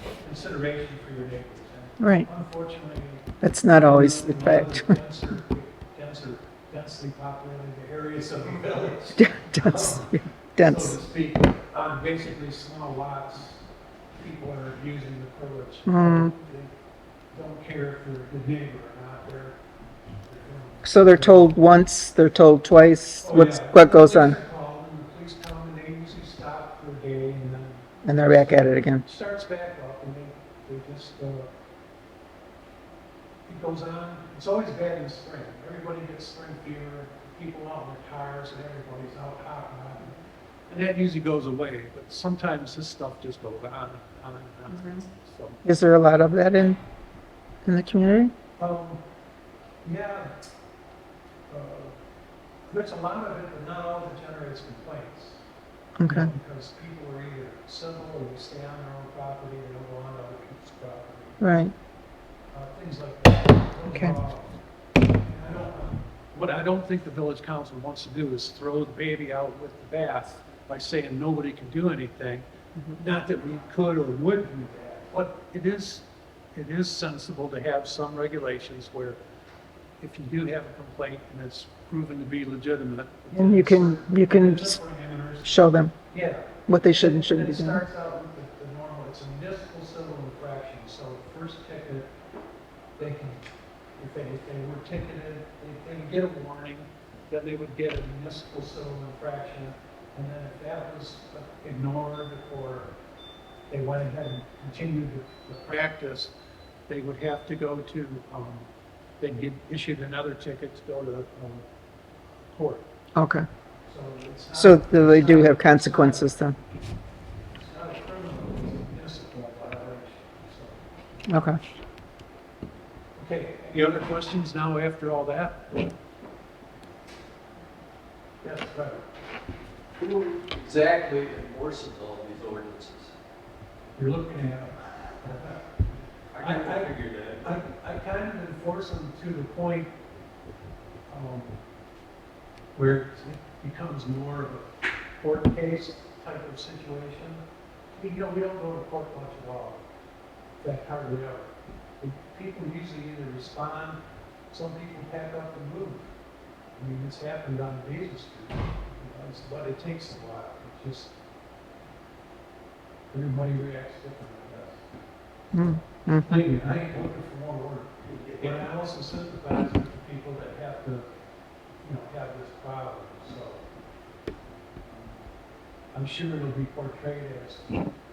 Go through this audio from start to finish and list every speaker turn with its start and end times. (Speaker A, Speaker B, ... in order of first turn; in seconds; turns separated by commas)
Speaker A: 0.2-3.3, Speaker B: 2.0-2.3, Speaker B: 3.4-5.0, Speaker A: 3.8-13.6, Speaker B: 9.2-10.9, Speaker A: 14.2-16.7, Speaker B: 15.9-16.3, Speaker A: 17.3-19.6, Speaker A: 20.2-21.6, Speaker B: 20.8-24.4, Speaker A: 23.2-31.5, Speaker B: 28.0-29.0, Speaker A: 33.5-40.1, Speaker A: 40.7-45.6, Speaker B: 45.6-46.8, Speaker B: 47.6-48.3, Speaker A: 48.6-49.0, Speaker A: 49.8-50.3, Speaker A: 51.5-52.0, Speaker A: 52.7-55.4, Speaker B: 56.0-56.3, Speaker A: 56.0-61.5, Speaker B: 61.4-61.7, Speaker A: 62.5-64.6, Speaker A: 65.2-79.2, Speaker A: 80.0-92.1, Speaker B: 83.3-84.8, Speaker B: 85.4-85.9, Speaker B: 86.7-87.8, Speaker A: 93.0-93.4, Speaker A: 94.0-102.9, Speaker A: 103.7-106.3, Speaker A: 106.9-108.7, Speaker A: 109.2-111.6, Speaker A: 112.5-112.8, Speaker B: 113.2-113.4, Speaker A: 113.9-116.3, Speaker B: 114.5-116.5, Speaker A: 117.5-120.8, Speaker B: 121.3-121.6, Speaker A: 123.2-125.8, Speaker A: 128.4-129.0, Speaker C: 130.0-133.1, Speaker A: 133.9-135.6, Speaker C: 136.3-137.4, Speaker A: 136.4-139.9, Speaker A: 141.1-141.6, Speaker A: 142.7-144.7, Speaker A: 145.2-147.4, Speaker A: 147.9-149.8, Speaker A: 150.6-154.0, Speaker A: 154.5-156.1, Speaker A: 156.8-161.1, Speaker A: 163.1-164.8, Speaker B: 165.5-166.3, Speaker A: 166.2-171.1, Speaker A: 171.8-173.6, Speaker A: 174.8-175.2, Speaker A: 175.9-177.8